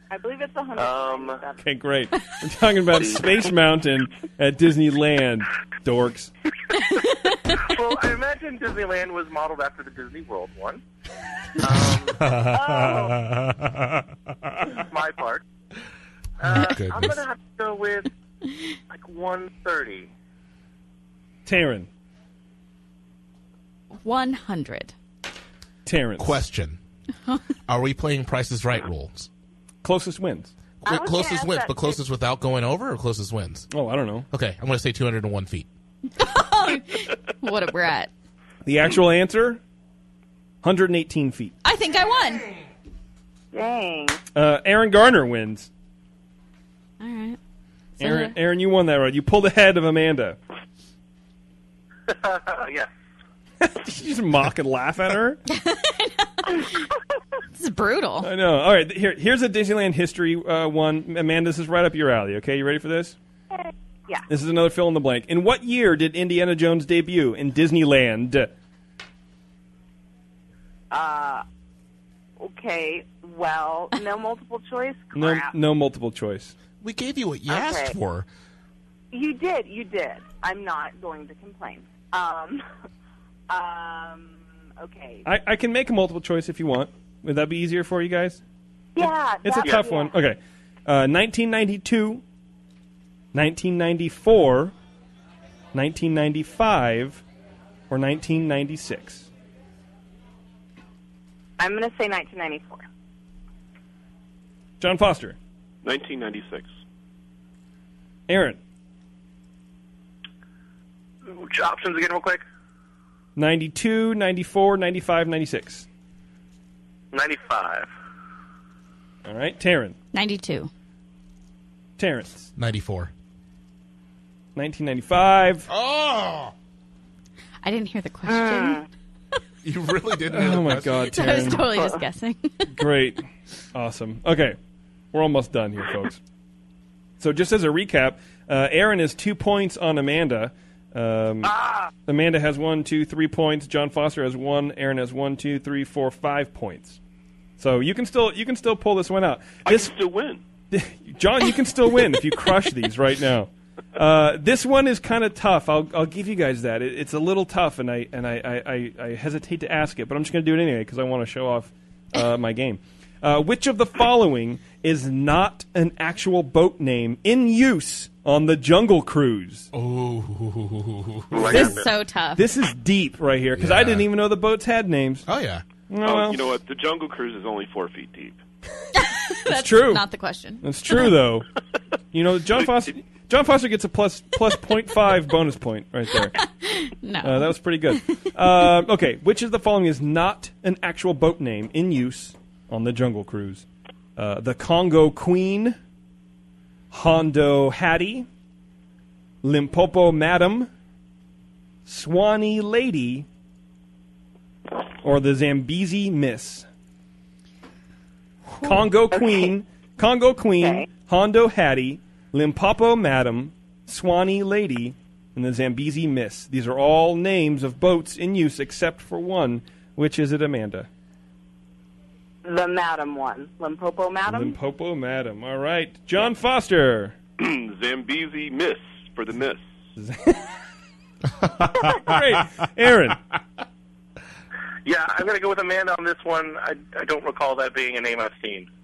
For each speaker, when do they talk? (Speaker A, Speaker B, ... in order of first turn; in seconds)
Speaker A: 0.1-1.6, 12.5-13.2, 30.9-32.0, 43.5-44.2, 63.5-64.2, 70.9-71.4, 72.4-75.5, 77.5-78.0, 79.1-82.6, 83.5-85.3, 89.0-90.1, 101.6-102.8, 128.3-128.8, 131.7-132.0, 141.6-141.9, 209.1-209.5, 210.6-210.9, 222.4-224.6
Speaker B: 0.8-1.4, 3.0-3.3, 7.4-10.8, 11.6-13.0, 14.7-15.4, 16.4-18.1, 18.9-20.1, 52.1-52.9, 111.3-112.4, 117.1-117.9, 171.3-171.7, 234.8-238.7
Speaker C: 1.6-6.3, 21.4-21.9, 25.9-26.4, 29.8-30.5, 33.7-34.3, 38.6-39.6, 40.6-41.5, 44.4-45.7, 48.0-50.4, 53.6-55.4, 58.2-63.1, 64.3-68.5, 75.1-76.5, 85.3-88.4, 89.0-92.2, 93.3-94.7, 95.7-97.2, 97.9-99.3, 104.8-105.4, 108.3-108.6, 113.3-115.8, 119.2-120.0, 122.0-122.5, 124.5-125.7, 130.3-131.6, 132.7-134.6, 135.1-136.2, 137.2-147.0, 147.6-149.9, 150.7-169.7, 171.5-171.8, 172.3-175.3, 175.9-176.4, 179.4-180.1, 180.6-181.5, 182.1-186.4, 187.2-195.8, 196.9-198.3, 199.4-200.7, 201.8-203.3, 205.0-206.7, 208.6-220.9, 224.3-227.2, 230.0-230.5, 231.8-233.2
Speaker D: 12.2-14.0, 16.4-17.2, 26.2-26.8, 27.7-29.3, 30.8-33.7, 34.3-35.7, 76.8-78.3, 122.5-123.1, 125.7-126.5, 129.6-131.5, 169.7-171.8, 173.6-174.1, 175.3-175.6
Speaker E: 23.9-24.9, 36.1-38.1, 41.6-42.5, 47.0-47.4, 48.0-48.3, 55.5-56.9, 57.5-58.3, 120.1-120.7, 127.6-128.8, 131.1-132.7, 171.5-172.4, 178.9-181.1, 186.4-188.1
Speaker F: 105.8-106.7, 149.6-150.4, 176.0-178.4, 227.4-229.6